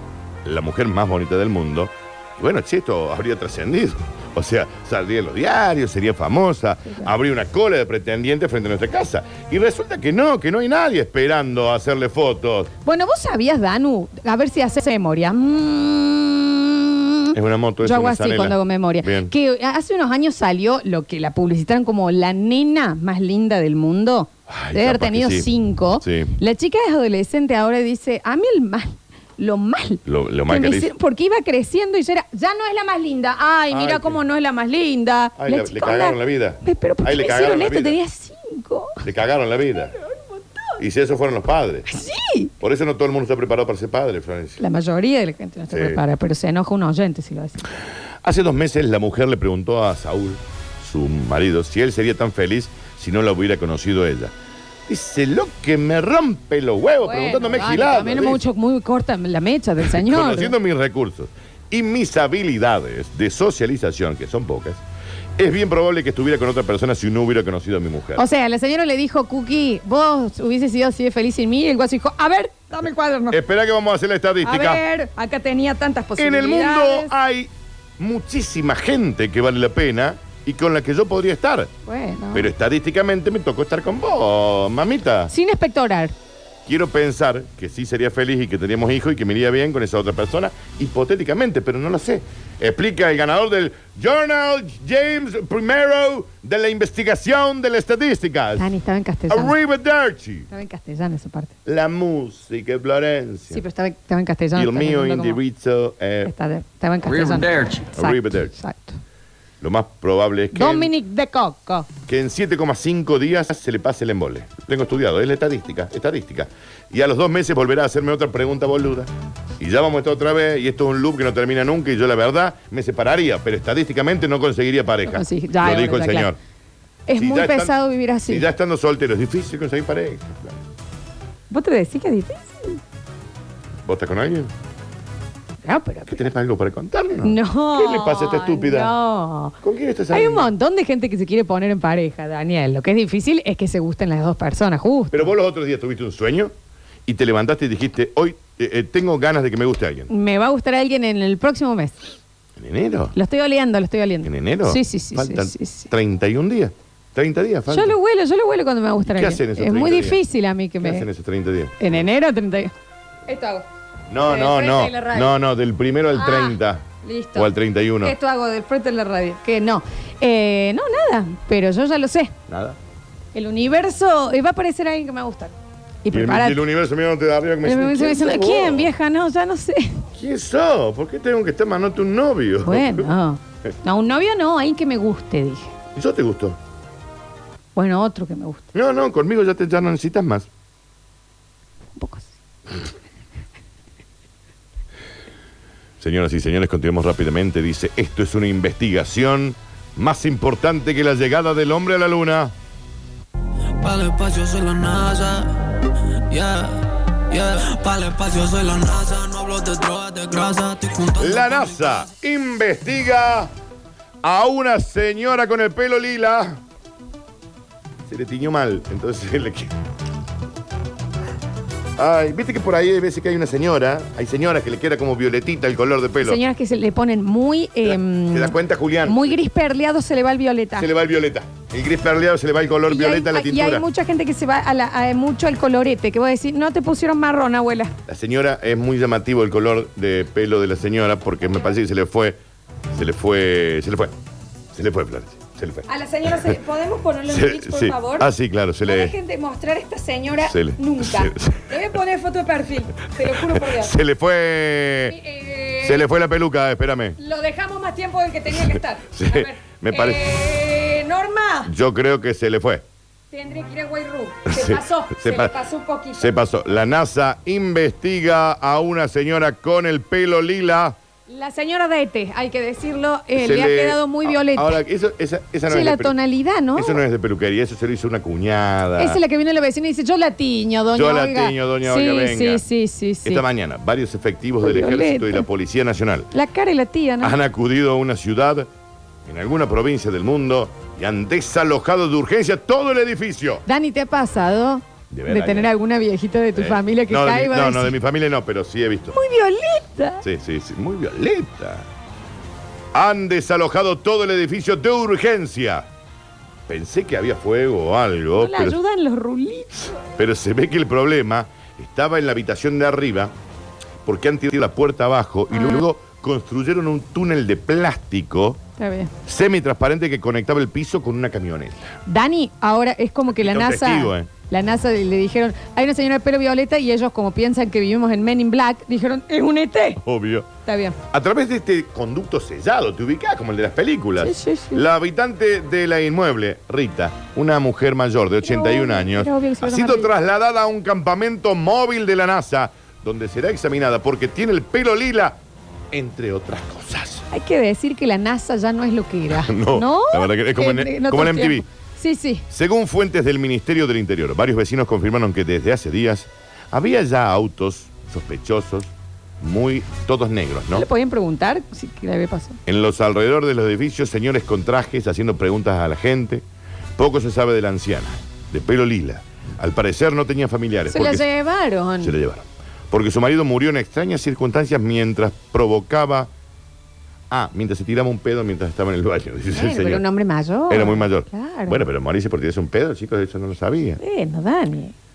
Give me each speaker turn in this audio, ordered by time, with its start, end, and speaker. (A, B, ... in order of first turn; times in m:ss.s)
0:00.4-0:12.7 A
0:12.8-0:39.0 B
0:17.3-0:19.3 A
0:24.5-0:26.4 A
0:30.0-0:30.9 A
0:33.7-0:34.2 A
0:35.4-0:38.0 A
0:39.0-0:40.0 A
0:40.8-0:42.0 A
0:41.9-0:42.5 B
0:42.6-0:44.6 A
0:44.6-0:47.6 B
0:45.7-0:46.0 A
0:48.2-0:54.3 A
0:54.9-0:58.4 A
0:57.0-1:00.6 B
0:59.8-1:04.8 A
1:05.4-1:08.2 A
1:08.2-1:13.4 B
1:13.3-1:14.8 A
1:14.4-1:17.1 B
1:16.2-1:21.7 A
1:21.9-1:22.5 B
1:22.3-1:25.3 A
1:25.3-1:26.1 B
1:26.7-1:38.7 A
1:38.6-1:39.6 B
1:39.3-1:40.5 A
1:40.5-1:41.5 B
1:41.7-1:43.6 A
1:43.5-1:45.4 B
1:44.5-1:46.3 A
1:46.2-1:49.0 B
1:48.0-1:48.5 A
1:49.6-1:50.9 A
1:50.5-1:51.9 B
1:52.1-2:06.4 A
2:05.0-2:06.4 B
2:07.1-2:08.5 B
2:07.2-2:07.8 A
2:08.3-2:10.6 A
2:11.5-2:12.8 B
2:13.8-2:14.5 A
2:15.6-2:16.2 B
2:16.1-2:18.9 A
2:17.2-2:19.6 B
2:19.6-2:20.5 A
2:20.1-2:25.3 B
2:25.1-2:26.5 A
2:27.1-2:30.1 A
2:30.1-2:32.0 B
2:32.6-2:33.2 A
2:33.2-2:35.9 B
2:34.2-2:38.0 A
2:37.7-2:41.1 B
2:39.1-2:40.2 A
2:40.8-2:41.8 A
2:41.8-2:42.7 B
2:43.3-2:43.7 B
2:44.1-2:48.2 A
2:44.2-2:45.4 B
2:46.1-2:52.3 B
2:52.5-2:52.8 A
2:53.3-2:56.6 B
2:56.1-2:58.9 A
2:57.6-3:00.1 B
3:00.2-3:03.1 A
3:02.6-3:05.7 B
3:06.0-3:06.6 A
3:07.8-3:08.7 B
3:08.7-3:10.5 A
3:12.0-3:12.3 B
3:16.0-3:22.5 A
3:23.8-3:31.6 C
3:31.1-3:33.5 A
3:34.2-3:36.6 A
3:38.1-3:39.7 A
3:42.0-3:46.4 A
3:46.2-3:50.9 B
3:47.8-3:49.4 A
3:50.8-3:53.8 A
3:52.9-3:58.0 B
3:58.1-4:02.4 A
4:02.9-4:04.2 A
4:04.7-4:06.6 A
4:05.9-4:08.3 B
4:07.3-4:09.2 A
4:08.9-4:13.9 B
4:10.4-4:11.9 A
4:13.4-4:15.2 A
4:15.1-4:16.1 B
4:15.8-4:17.2 A
4:17.2-4:21.7 B
4:18.5-4:20.3 A
4:21.7-4:22.8 A
4:23.3-4:26.3 B
4:24.5-4:25.6 A
4:26.1-4:31.0 A
4:31.3-4:34.8 B
4:33.4-4:36.2 A
4:35.7-4:37.0 B
4:36.8-4:39.2 A
4:39.0-4:43.4 B
4:40.9-4:42.6 A
4:43.2-4:46.3 A
4:44.6-4:45.4 B
4:46.3-4:47.4 B
4:47.2-4:48.7 A
4:49.3-4:53.6 A
4:53.7-4:57.9 B
4:55.1-4:55.7 A
4:56.5-4:59.2 A
4:59.1-5:00.2 B
5:00.2-5:01.9 A
5:02.9-5:05.9 A
5:06.7-5:08.8 A
5:08.4-5:10.0 B
5:10.0-5:13.3 A
5:14.0-5:18.6 A
5:15.5-5:15.8 B
5:18.8-5:19.1 B
5:19.2-5:22.0 A
5:22.1-5:30.0 B
5:23.3-5:24.3 A
5:30.0-5:30.5 A
5:30.6-5:31.0 B
5:31.1-5:45.4 A
5:34.2-5:34.8 B
5:38.4-5:40.1 B
5:45.9-5:47.3 A
5:47.3-5:52.4 B
5:49.3-5:51.7 A
5:52.5-6:00.9 A
6:00.7-6:02.6 B
6:02.7-6:06.4 A
6:07.0-6:11.2 A
6:10.9-6:12.2 B
6:12.0-6:16.3 A
6:17.3-6:20.0 A
6:19.5-6:21.8 B
6:20.7-6:24.0 A
6:24.0-6:25.0 B